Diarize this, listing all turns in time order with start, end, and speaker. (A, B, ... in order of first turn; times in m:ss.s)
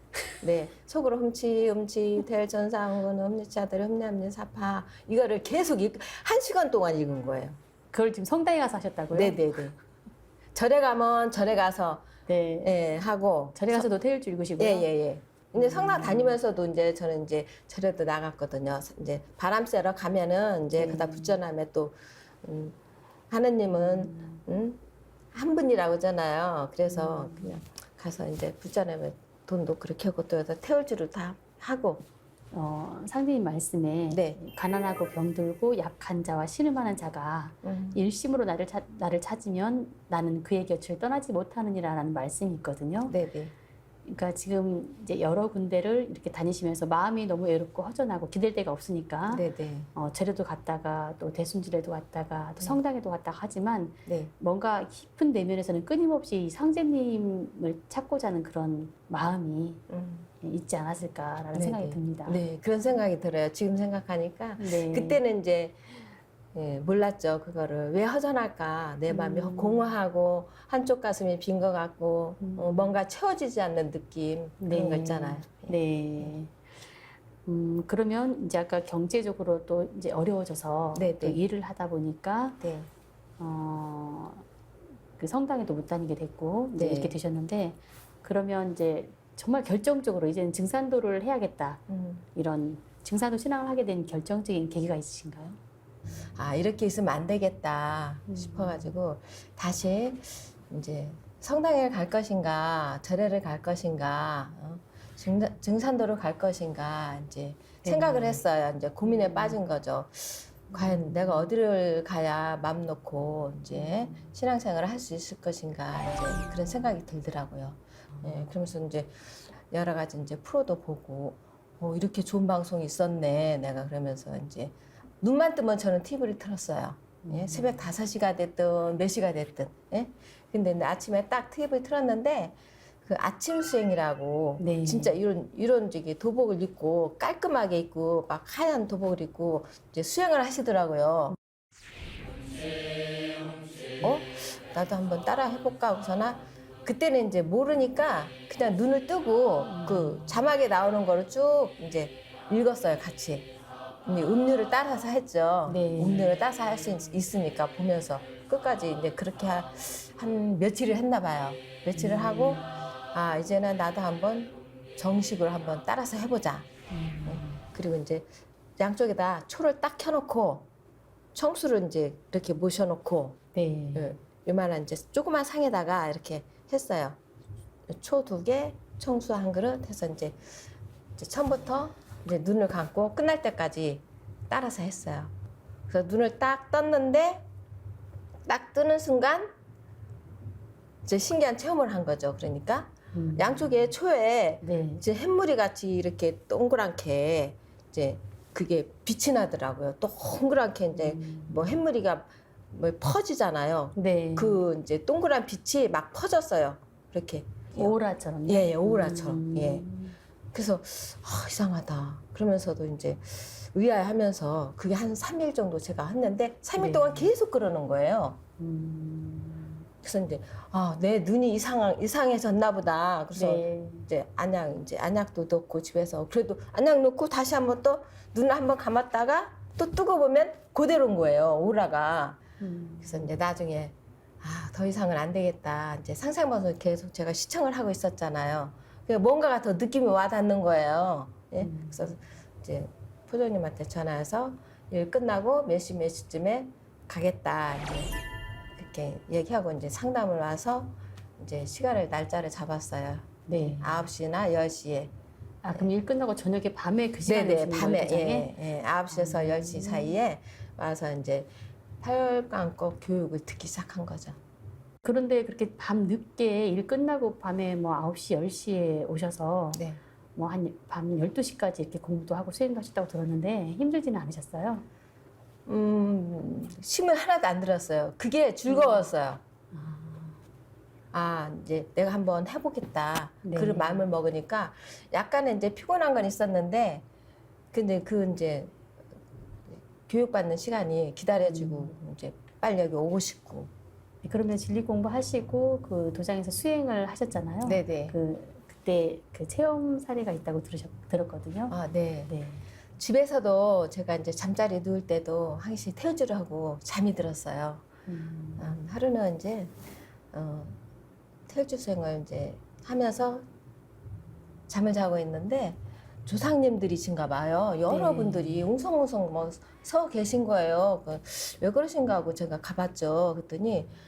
0:00.4-0:07.6 A
0:07.9-0:09.5 B
0:09.1-0:09.8 A
0:10.6-0:12.1 A
0:12.3-0:12.7 B
0:12.6-0:13.9 A
0:13.6-0:14.9 B
0:14.6-0:22.8 A
0:15.5-0:16.4 B
0:20.8-0:21.4 B
0:23.3-0:24.8 A
0:23.9-0:24.4 B
0:25.3-0:32.0 A
0:26.9-0:27.6 B
0:32.5-0:43.2 B
0:34.1-0:34.4 A
0:37.6-0:38.0 A
0:43.1-0:43.5 A
0:44.1-0:59.8 B
0:49.3-0:49.9 A
0:54.1-0:54.3 A
0:59.9-1:00.3 A
1:00.4-1:02.4 B
1:01.5-1:05.8 A
1:04.6-1:05.2 B
1:06.5-1:16.4 A
1:09.1-1:09.9 B
1:12.4-1:12.9 B
1:14.6-1:16.6 B
1:17.4-1:22.6 B
1:21.0-1:21.4 A
1:22.6-1:22.9 A
1:23.4-1:24.4 B
1:25.2-1:31.8 B
1:26.8-1:27.2 A
1:31.9-1:32.3 A
1:32.4-1:35.6 B
1:36.4-2:21.4 A
1:38.3-1:38.9 B
1:47.8-1:48.4 B
1:49.0-1:49.6 B
1:50.7-1:51.5 B
1:53.8-1:54.2 B
2:07.2-2:07.8 B
2:14.6-2:15.2 B
2:24.0-2:33.5 A
2:29.6-2:30.4 B
2:34.0-2:46.7 A
2:35.7-2:36.4 B
2:41.9-2:42.9 B
2:46.9-2:47.6 B
2:47.3-2:48.3 A
2:48.8-2:50.7 A
2:51.4-2:53.4 A
2:53.6-2:54.1 B
2:54.0-2:57.2 A
2:57.9-3:00.4 A
3:01.2-3:05.3 A
3:05.9-3:07.4 A
3:08.5-3:09.5 A
3:11.0-3:28.0 A
3:13.1-3:13.8 B
3:14.6-3:15.0 B
3:21.0-3:21.8 B
3:24.0-3:24.6 B
3:27.8-3:30.2 B
3:28.5-3:29.9 A
3:30.5-3:38.4 A
3:36.8-3:37.3 B
3:38.6-3:39.8 B
3:40.0-3:52.4 A
3:43.4-3:44.1 B
3:52.6-3:53.4 B
3:53.0-4:08.2 A
4:01.6-4:02.1 B
4:08.8-4:15.1 A
4:13.5-4:14.1 B
4:15.6-4:18.5 B
4:17.3-4:21.5 A
4:19.1-4:20.2 B
4:22.0-4:24.4 A
4:25.0-4:29.8 B
4:29.8-4:30.0 A
4:30.4-4:34.9 B
4:35.7-4:39.4 A
4:38.7-4:39.1 B
4:39.7-4:40.4 B
4:41.1-4:47.0 A
4:43.4-4:44.1 B
4:47.7-4:48.8 A
4:49.7-4:53.7 A
4:51.4-4:51.9 B
4:54.2-5:01.8 B
4:57.6-4:58.2 A
5:01.7-5:02.3 A
5:02.3-5:02.6 B
5:03.0-5:07.9 A
5:08.1-5:08.7 B
5:08.6-5:09.7 A
5:10.3-5:10.8 A
5:11.5-5:13.4 A
5:14.7-5:23.9 A
5:17.9-5:18.7 B